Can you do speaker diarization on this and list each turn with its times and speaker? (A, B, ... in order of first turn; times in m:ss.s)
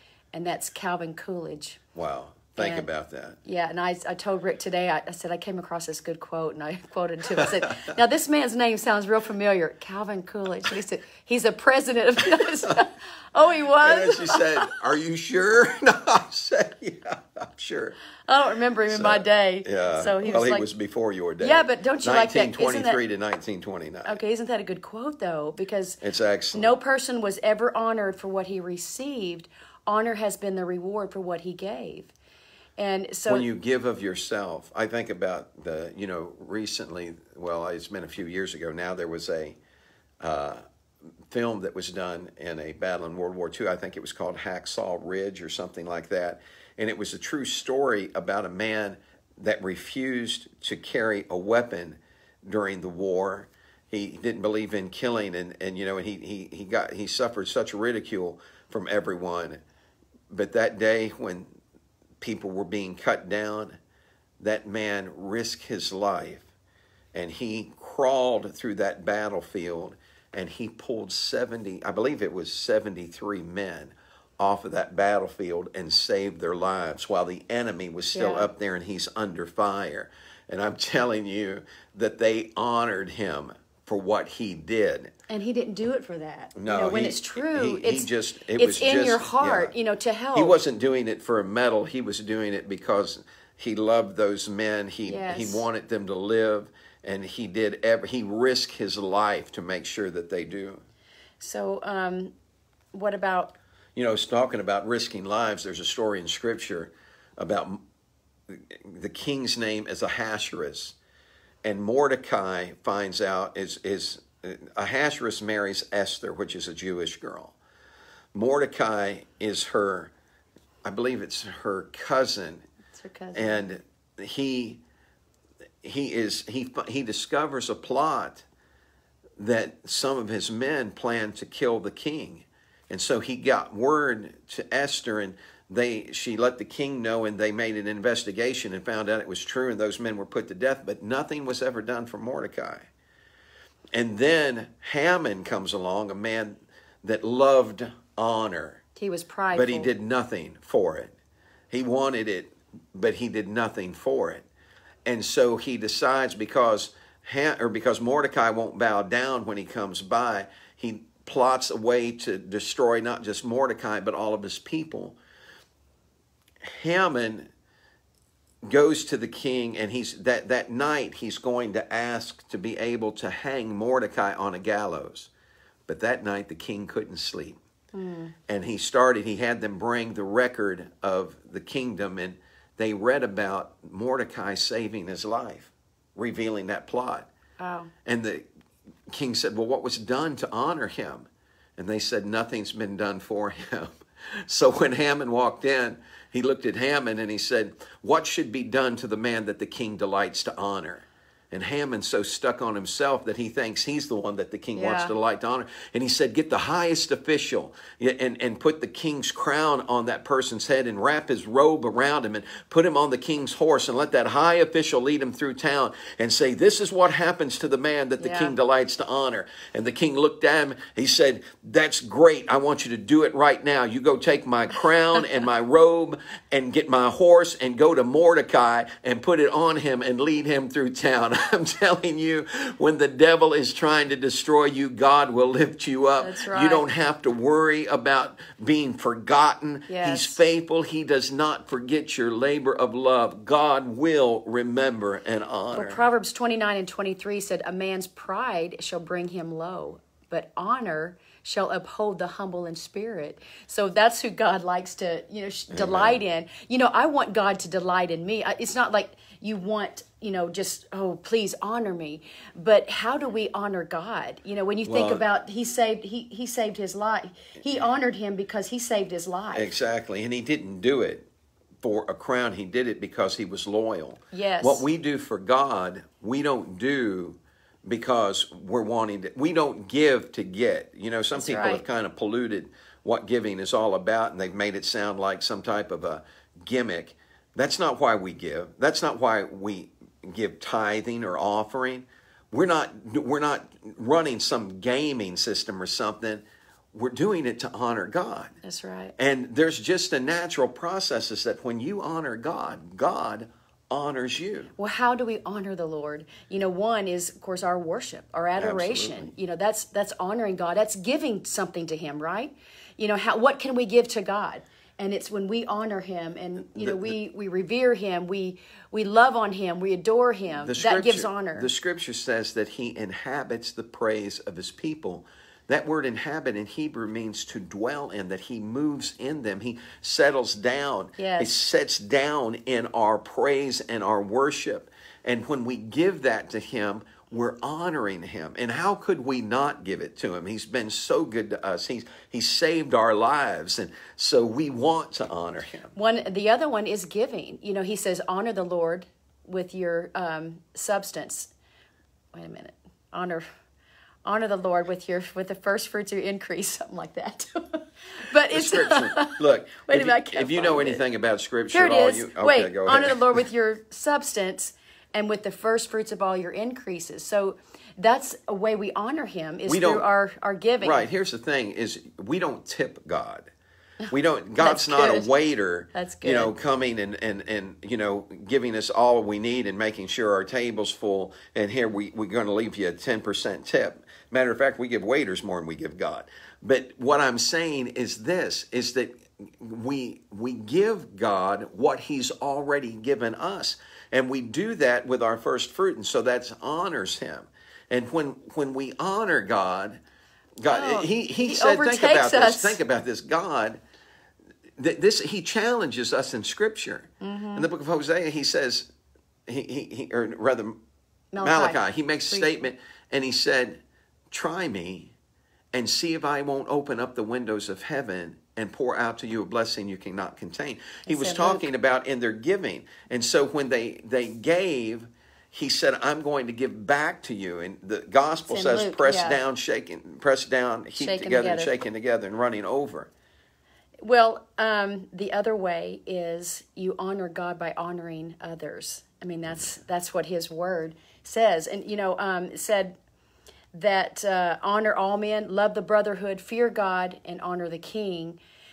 0:00.3-0:01.8 A
0:01.9-0:03.4 B
0:02.6-0:02.9 A
0:03.4-0:14.7 A
0:12.4-0:12.7 B
0:13.8-0:18.0 B
0:18.3-0:20.7 A
0:18.9-0:24.2 B
0:21.4-0:23.0 A
0:24.0-0:26.0 A
0:26.0-0:26.7 B
0:26.5-0:32.1 A
0:32.8-0:33.5 A
0:33.3-0:39.6 B
0:40.2-0:40.6 B
0:41.3-0:59.6 B
1:00.3-1:01.6 B
1:02.2-1:03.8 B
1:04.4-1:06.5 B
1:07.1-1:25.1 B
1:18.1-1:18.5 A
1:25.3-1:30.6 A
1:26.5-1:29.7 B
1:30.3-1:40.8 B
1:35.1-1:35.6 A
1:41.4-1:42.3 A
1:42.9-1:43.6 A
1:43.9-1:47.8 B
1:48.5-1:51.0 B
1:51.6-1:57.6 B
1:58.3-2:00.1 B
2:00.8-2:02.6 B
2:02.9-2:03.6 A
2:03.3-2:04.8 B
2:05.8-2:08.4 B
2:09.4-2:22.9 B
2:23.9-2:28.8 B
2:29.0-2:29.9 A
2:29.5-2:31.1 B
2:31.7-2:34.4 B
2:35.0-2:45.2 B
2:46.6-2:47.5 B
2:48.6-2:55.3 B
2:55.9-2:57.6 B
2:57.9-2:58.3 A
2:58.5-3:07.3 B
3:07.6-3:07.9 A
3:08.0-3:08.4 B
3:09.1-3:13.9 B
3:14.4-4:06.1 B
3:24.7-3:25.1 A
3:38.2-3:38.5 A
3:56.2-3:56.9 A
3:59.9-4:00.4 A
4:05.7-4:29.7 A
4:15.7-4:16.2 B
4:24.8-4:25.2 B
4:29.5-4:31.2 B
4:31.8-4:58.5 B
4:34.3-4:34.8 A
4:41.3-4:41.8 A
4:58.6-4:59.1 A
4:59.2-5:04.7 B
5:04.8-5:21.7 A
5:08.6-5:09.3 B
5:16.7-5:17.1 B
5:20.6-5:45.9 B
5:31.2-5:31.5 A
5:45.9-5:51.5 A
5:52.3-5:53.4 A
5:54.2-6:01.0 A
5:58.5-6:03.4 B
6:01.7-6:11.0 A
6:09.7-6:10.0 B
6:10.8-6:13.5 B
6:14.0-6:15.3 A
6:14.1-6:40.0 B
6:15.9-6:16.5 A
6:40.6-6:43.8 B
6:40.6-6:42.8 A
6:44.8-6:48.9 B
6:47.2-6:47.7 A
6:49.5-6:50.8 B
6:51.3-6:52.6 A
6:51.4-6:53.8 B
6:54.3-6:55.1 B
6:55.7-7:13.1 B
7:01.1-7:01.7 A
7:08.5-7:09.4 A
7:11.0-7:11.7 A
7:14.0-7:23.0 A
7:23.7-7:28.4 A